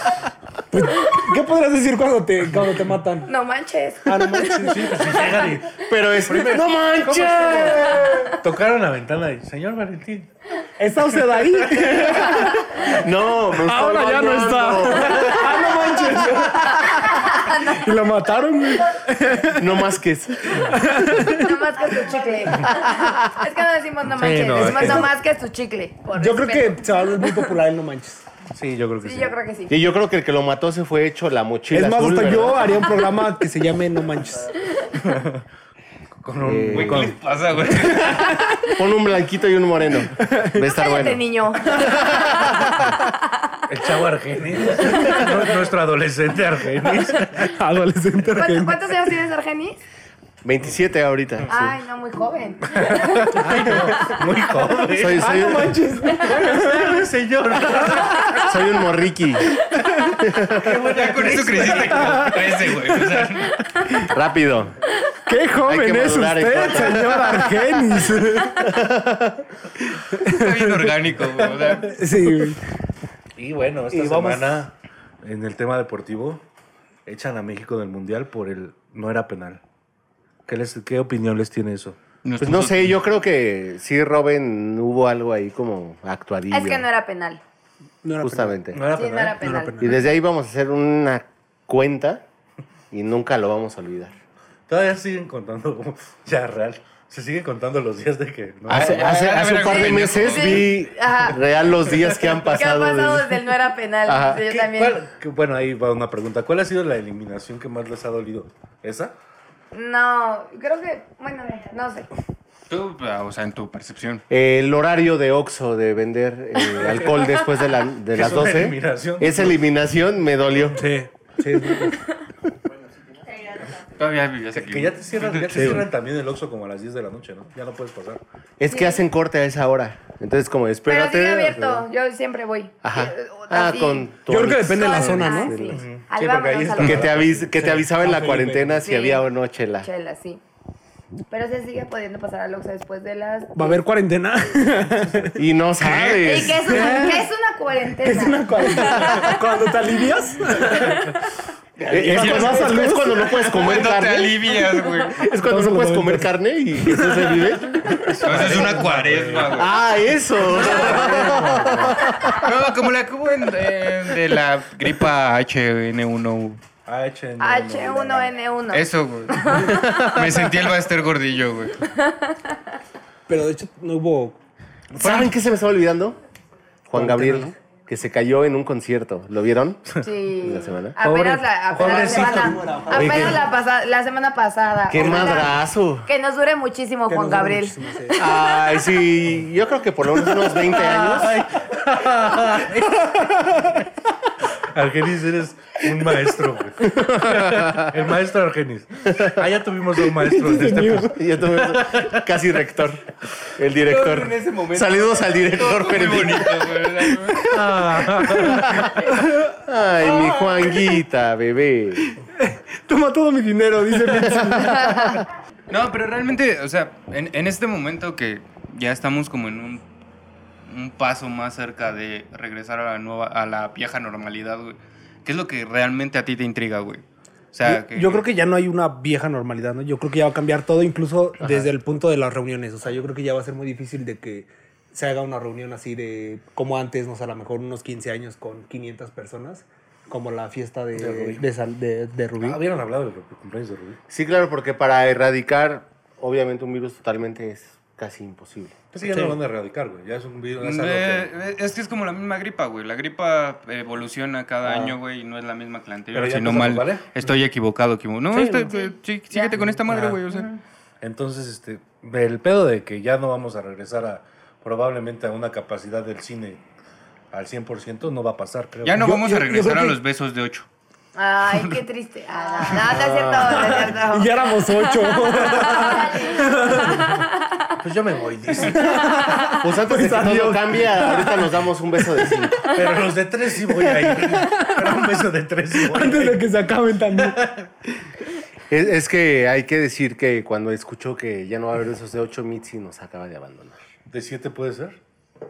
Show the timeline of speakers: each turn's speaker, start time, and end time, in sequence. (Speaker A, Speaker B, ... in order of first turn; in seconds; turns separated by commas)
Speaker A: 0.7-3.3, Speaker B: 3.3-5.6, Speaker A: 4.1-4.8, Speaker C: 4.5-10.3, Speaker D: 5.9-8.1, Speaker B: 7.5-8.4, Speaker A: 10.8-13.0, Speaker C: 11.3-11.9, Speaker D: 12.8-15.7, Speaker A: 13.6-19.9, Speaker B: 15.2-18.1, Speaker D: 19.5-20.8, Speaker A: 20.6-21.6, Speaker B: 21.1-27.5, Speaker C: 24.1-25.1, Speaker A: 24.6-25.1, Speaker A: 26.2-28.2, Speaker C: 28.5-29.4, Speaker B: 29.0-29.8, Speaker D: 29.7-32.9, Speaker A: 31.7-34.5, Speaker C: 35.0-35.4, Speaker C: 36.2-37.2, Speaker D: 36.4-37.2, Speaker E: 36.7-38.5, Speaker A: 38.0-38.5, Speaker D: 38.8-41.2, Speaker A: 40.2-40.6, Speaker B: 40.7-42.6, Speaker C: 43.7-47.5, Speaker A: 45.0-45.4, Speaker A: 47.4-48.9, Speaker B: 48.3-49.8, Speaker D: 50.4-51.8, Speaker B: 51.5-53.4, Speaker C: 52.7-55.5, Speaker A: 53.5-54.1, Speaker D: 54.9-55.8, Speaker A: 55.1-57.1, Speaker C: 56.2-58.4, Speaker A: 57.7-58.6, Speaker D: 58.4-59.5, Speaker D: 60.2-60.8, Speaker C: 60.5-62.4, Speaker E: 60.9-63.6, Speaker A: 61.6-63.2, Speaker C: 63.0-63.5, Speaker D: 64.1-64.8, Speaker A: 65.3-68.7, Speaker D: 65.6-67.8, Speaker D: 68.6-69.4, Speaker A: 69.8-70.9, Speaker E: 70.3-72.0, Speaker C: 71.2-72.4, Speaker A: 71.9-72.6, Speaker C: 73.4-76.4, Speaker A: 73.9-74.7, Speaker C: 77.1-79.6, Speaker C: 80.5-82.0, Speaker E: 82.2-83.0, Speaker D: 82.4-86.8, Speaker B: 86.5-87.4, Speaker A: 88.0-88.6, Speaker D: 88.2-88.8, Speaker C: 88.7-89.5, Speaker B: 88.9-90.0, Speaker A: 89.4-90.1, Speaker D: 89.8-92.2, Speaker D: 92.9-94.1, Speaker C: 94.7-99.4, Speaker D: 98.7-103.4, Speaker E: 98.7-100.7, Speaker B: 99.7-101.4, Speaker B: 102.4-105.0, Speaker D: 104.1-104.4, Speaker C: 104.4-109.1, Speaker B: 109.7-112.1, Speaker E: 112.7-114.2, Speaker D: 114.3-120.8, Speaker C: 118.1-119.6, Speaker A: 120.8-122.0, Speaker E: 124.0-125.8, Speaker C: 124.5-128.2, Speaker D: 128.6-131.9, Speaker B: 128.7-129.0, Speaker B: 130.9-137.3, Speaker D: 132.8-135.7, Speaker A: 134.3-135.8, Speaker C: 135.7-137.9, Speaker D: 136.8-139.9, Speaker A: 137.9-138.8, Speaker B: 138.8-139.3, Speaker B: 139.8-140.4, Speaker B: 141.3-143.8, Speaker A: 143.6-145.4, Speaker D: 145.4-146.9, Speaker E: 145.8-146.5, Speaker B: 146.2-149.4, Speaker A: 146.7-147.3, Speaker C: 146.7-147.1, Speaker A: 148.0-151.2, Speaker A: 151.8-153.4, Speaker D: 151.9-154.5, Speaker E: 152.1-152.8, Speaker E: 153.4-155.2, Speaker D: 155.1-158.8, Speaker A: 155.4-157.5, Speaker C: 157.9-159.7, Speaker E: 158.2-159.7, Speaker D: 159.5-162.4, Speaker C: 160.4-162.1, Speaker E: 162.2-166.6, Speaker C: 166.9-168.3, Speaker B: 167.4-169.8, Speaker E: 168.7-171.8, Speaker D: 169.8-170.3, Speaker B: 171.9-172.4, Speaker A: 173.3-174.4, Speaker C: 175.0-175.3, Speaker D: 175.0-176.2, Speaker E: 175.0-175.3, Speaker D: 176.9-181.0, Speaker A: 176.9-177.5, Speaker B: 180.0-188.9, Speaker C: 181.0-183.5, Speaker A: 181.7-183.5, Speaker D: 184.9-186.1, Speaker A: 187.1-188.2, Speaker D: 188.2-191.4, Speaker C: 190.4-193.8, Speaker C: 194.5-202.3, Speaker D: 196.9-197.9, Speaker A: 200.2-201.2, Speaker D: 201.0-206.7, Speaker E: 203.8-207.6, Speaker A: 207.3-207.6, Speaker C: 207.5-208.9, Speaker A: 208.2-209.5, Speaker D: 208.4-212.2, Speaker A: 212.4-215.2, Speaker D: 214.3-214.7, Speaker E: 215.7-219.8, Speaker E: 220.7-228.3, Speaker A: 227.6-242.6, Speaker D: 231.4-231.7, Speaker C: 241.0-241.4, Speaker C: 242.4-244.0, Speaker D: 244.1-248.8, Speaker C: 248.9-251.3, Speaker A: 249.1-249.3, Speaker E: 250.6-260.5, Speaker C: 254.7-254.9, Speaker C: 256.1-257.1, Speaker A: 258.3-258.7, Speaker B: 258.7-259.6, Speaker A: 259.5-260.2, Speaker B: 260.3-260.6, Speaker C: 261.0-266.6, Speaker C: 267.3-269.1, Speaker E: 268.8-270.7, Speaker A: 269.0-270.0, Speaker B: 271.1-274.3, Speaker D: 272.8-273.9, Speaker A: 273.4-277.3, Speaker B: 275.3-277.6, Speaker C: 277.8-279.0, Speaker A: 278.6-282.8, Speaker B: 279.2-279.6, Speaker D: 279.6-282.7, Speaker C: 282.7-286.5, Speaker A: 283.6-285.2, Speaker A: 285.7-287.4, Speaker C: 287.1-287.7, Speaker D: 288.7-293.8, Speaker C: 294.1-295.0